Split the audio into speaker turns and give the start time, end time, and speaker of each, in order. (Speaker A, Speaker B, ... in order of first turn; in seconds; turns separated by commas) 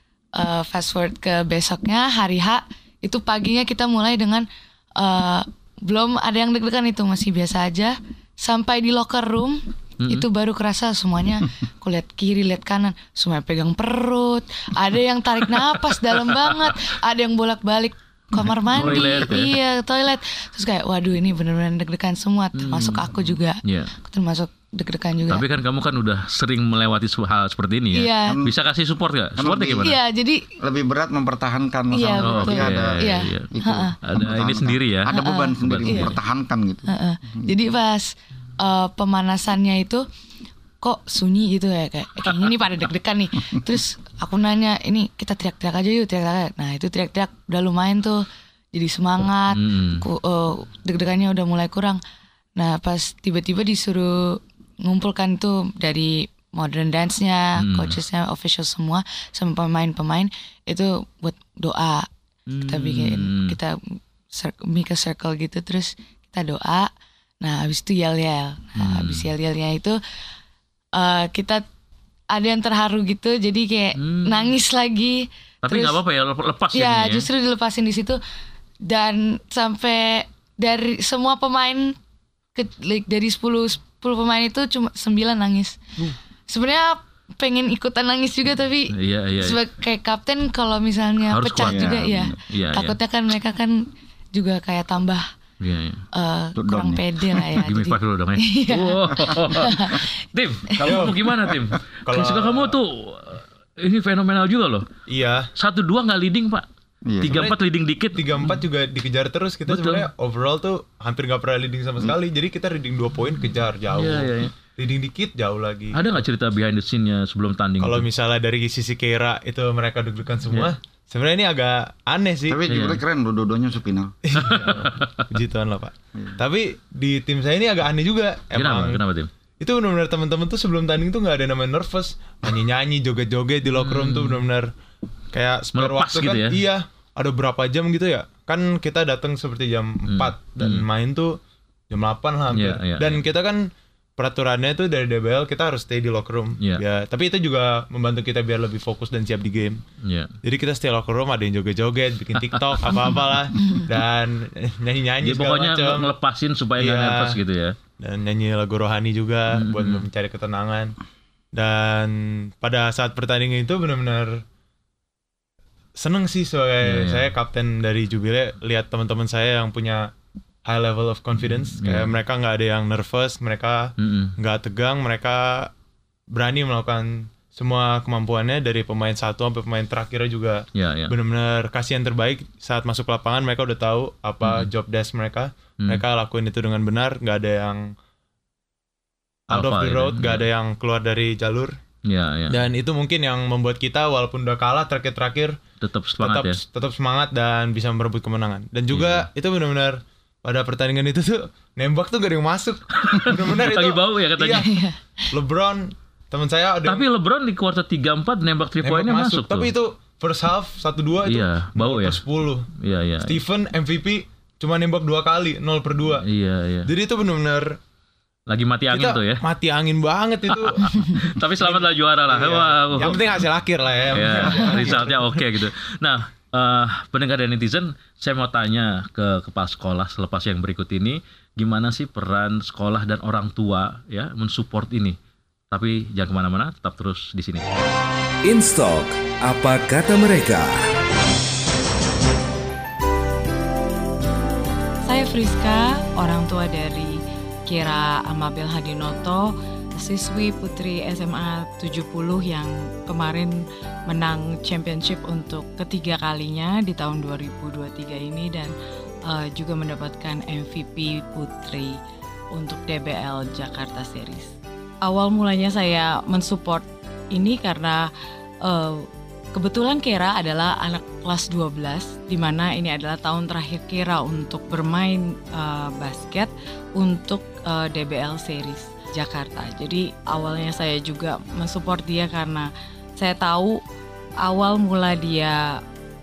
Speaker A: 0.3-25.5, Speaker B: 18.7-19.6, Speaker C: 18.8-19.5, Speaker B: 22.5-23.9, Speaker B: 25.3-30.0, Speaker A: 27.9-28.4, Speaker C: 28.3-28.5, Speaker C: 29.4-29.9, Speaker A: 29.8-30.5, Speaker C: 30.6-37.5, Speaker A: 31.9-34.0, Speaker B: 32.2-33.5, Speaker B: 34.0-36.1, Speaker A: 35.1-36.1, Speaker A: 36.9-40.0, Speaker A: 40.8-52.0, Speaker B: 49.5-50.0, Speaker A: 52.6-62.1, Speaker B: 57.6-58.0, Speaker B: 62.5-63.6, Speaker A: 62.7-66.9, Speaker A: 67.4-70.0, Speaker B: 68.8-69.3, Speaker A: 71.0-71.6, Speaker A: 72.3-76.0, Speaker B: 74.0-74.5, Speaker B: 75.6-77.3, Speaker A: 76.7-78.2, Speaker A: 78.8-82.0, Speaker A: 82.5-85.8, Speaker A: 86.5-95.3, Speaker B: 88.9-89.6, Speaker B: 91.3-93.0, Speaker C: 91.6-92.3, Speaker B: 95.6-96.0, Speaker A: 96.1-100.0, Speaker C: 96.5-97.5, Speaker B: 97.6-104.8, Speaker D: 100.8-101.2, Speaker D: 102.0-102.8, Speaker D: 105.1-105.5, Speaker B: 105.5-106.7, Speaker C: 107.0-107.4, Speaker B: 107.2-108.6, Speaker D: 107.2-107.6, Speaker D: 108.1-116.0, Speaker B: 109.7-110.1, Speaker B: 113.9-114.5, Speaker B: 115.9-118.1, Speaker D: 117.8-122.6, Speaker C: 122.5-124.1, Speaker B: 122.7-123.0, Speaker D: 124.2-129.0, Speaker B: 124.4-125.1, Speaker B: 128.5-129.3, Speaker D: 129.6-134.7, Speaker B: 133.8-134.4, Speaker D: 135.3-141.4, Speaker B: 135.8-136.6, Speaker B: 140.1-140.8, Speaker D: 141.9-149.8, Speaker B: 142.5-143.2, Speaker B: 150.0-150.3, Speaker D: 150.4-156.1, Speaker B: 152.4-153.1, Speaker B: 155.2-157.8, Speaker D: 156.8-157.4, Speaker D: 158.0-161.0, Speaker B: 159.5-160.0, Speaker D: 161.5-164.4, Speaker D: 166.0-170.1, Speaker B: 166.8-167.3, Speaker D: 170.7-175.7, Speaker B: 171.4-172.1, Speaker B: 174.0-174.3, Speaker D: 176.3-187.9, Speaker B: 180.8-181.1, Speaker B: 184.4-184.7, Speaker D: 189.5-191.8, Speaker B: 189.5-190.5, Speaker B: 192.0-192.6, Speaker D: 192.5-195.6, Speaker B: 195.8-196.6, Speaker D: 196.2-204.7, Speaker B: 198.9-199.3, Speaker B: 203.0-204.7, Speaker A: 204.6-205.0, Speaker D: 205.3-207.0, Speaker B: 206.8-209.7, Speaker D: 208.8-212.7, Speaker B: 211.2-212.2, Speaker B: 212.8-213.4, Speaker D: 213.2-216.2, Speaker B: 216.2-216.9, Speaker D: 216.9-217.8, Speaker B: 218.5-219.4, Speaker D: 218.9-225.4, Speaker B: 220.5-223.5, Speaker B: 224.1-235.2, Speaker B: 235.7-237.6, Speaker E: 238.4-240.9, Speaker F: 245.1-258.7, Speaker F: 259.3-262.0, Speaker F: 262.5-268.1, Speaker F: 268.6-283.8, Speaker F: 284.4-285.8